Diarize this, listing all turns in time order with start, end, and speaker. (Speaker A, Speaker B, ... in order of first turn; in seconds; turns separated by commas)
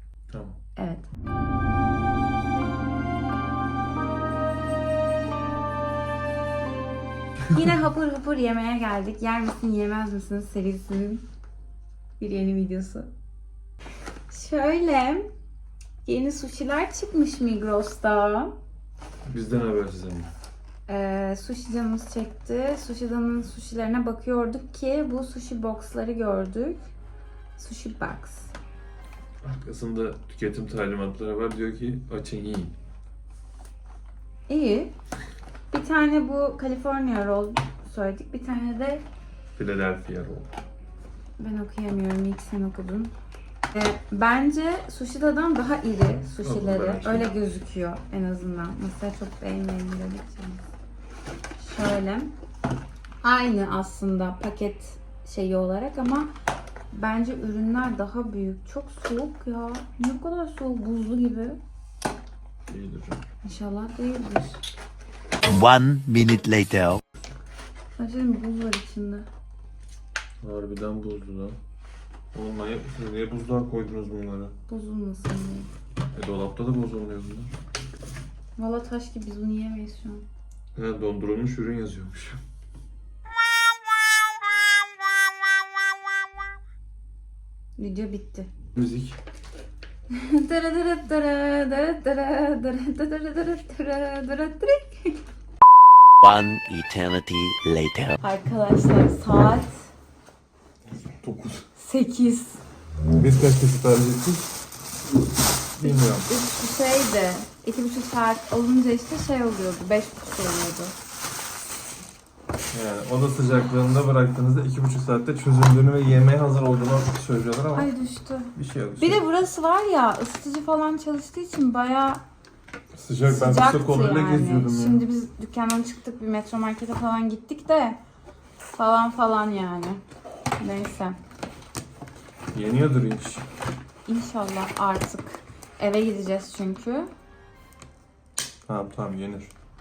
Speaker A: 0.3-0.6, Speaker B: 0.8-1.1, Speaker B: 7.5-11.2, Speaker B: 12.2-13.1, Speaker B: 14.3-15.3, Speaker B: 16.0-18.6, Speaker A: 19.2-20.3, Speaker B: 20.9-26.9, Speaker B: 27.6-28.5, Speaker A: 29.4-32.8, Speaker B: 34.5-34.9, Speaker B: 35.7-39.0, Speaker A: 39.5-40.5, Speaker B: 41.4-43.1, Speaker B: 43.7-50.7, Speaker A: 46.4-47.3, Speaker B: 51.6-52.3, Speaker B: 53.2-56.3, Speaker B: 56.9-61.6, Speaker A: 62.7-63.2, Speaker B: 63.4-64.6, Speaker C: 65.5-67.0, Speaker B: 68.0-69.3, Speaker A: 70.4-71.6, Speaker A: 72.3-74.5, Speaker B: 74.7-75.7, Speaker A: 76.1-77.5, Speaker B: 78.6-80.2, Speaker A: 80.7-82.4, Speaker B: 87.8-88.5, Speaker A: 88.7-89.2, Speaker B: 90.1-95.2, Speaker C: 96.2-98.2, Speaker B: 98.2-99.9, Speaker A: 100.9-101.7, Speaker B: 101.8-102.6, Speaker A: 103.1-104.5, Speaker A: 105.7-106.3, Speaker B: 105.8-110.9, Speaker A: 112.7-117.9, Speaker B: 117.7-122.2, Speaker A: 118.5-119.2, Speaker A: 122.9-125.0, Speaker B: 123.2-128.0, Speaker B: 128.6-130.0, Speaker B: 130.6-131.2, Speaker A: 132.5-133.4, Speaker B: 134.1-137.1, Speaker A: 138.7-139.5